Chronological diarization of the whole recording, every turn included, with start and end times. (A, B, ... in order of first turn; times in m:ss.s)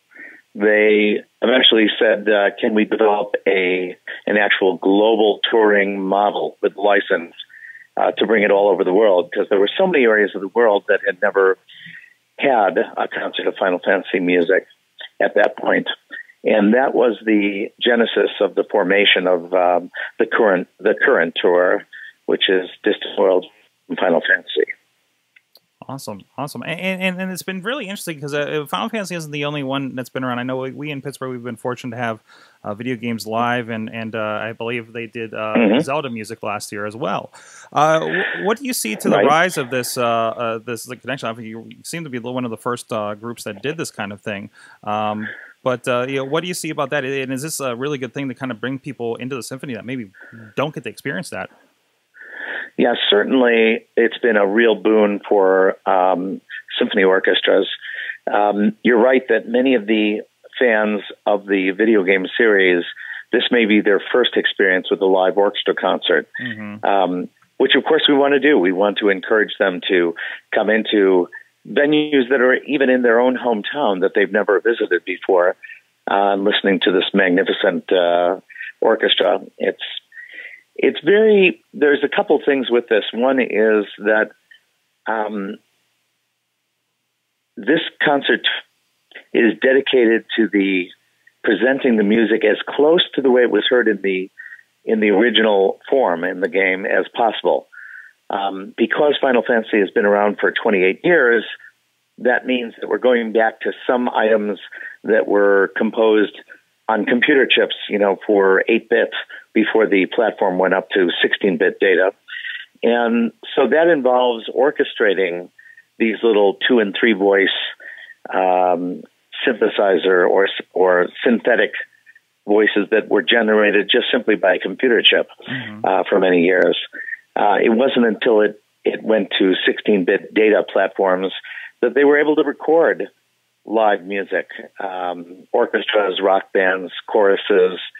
0:00.5-0:07.3 A
0:08.0-0:11.6 A
0:12.4-0:14.7 A
0:15.2-0:15.9 A
0:16.4-0:24.7 A
0:25.8-0:51.5 B
0:35.6-0:35.9 A
0:39.1-0:39.3 A
0:52.8-0:57.7 A
0:58.3-1:06.3 A
1:06.4-1:06.8 B
1:06.8-1:15.6 A
1:16.1-1:19.8 A
1:20.8-1:24.3 A
1:25.1-1:25.6 A
1:27.6-1:28.5 A
1:29.3-1:30.9 A
1:31.4-1:34.3 A
1:34.8-1:37.7 A
1:38.3-1:41.5 A
1:42.2-1:52.1 A
1:52.8-1:57.7 A
1:58.3-2:01.7 A
2:02.5-2:06.8 A
2:05.6-2:05.8 B
2:07.4-2:13.1 A
2:13.6-2:17.8 A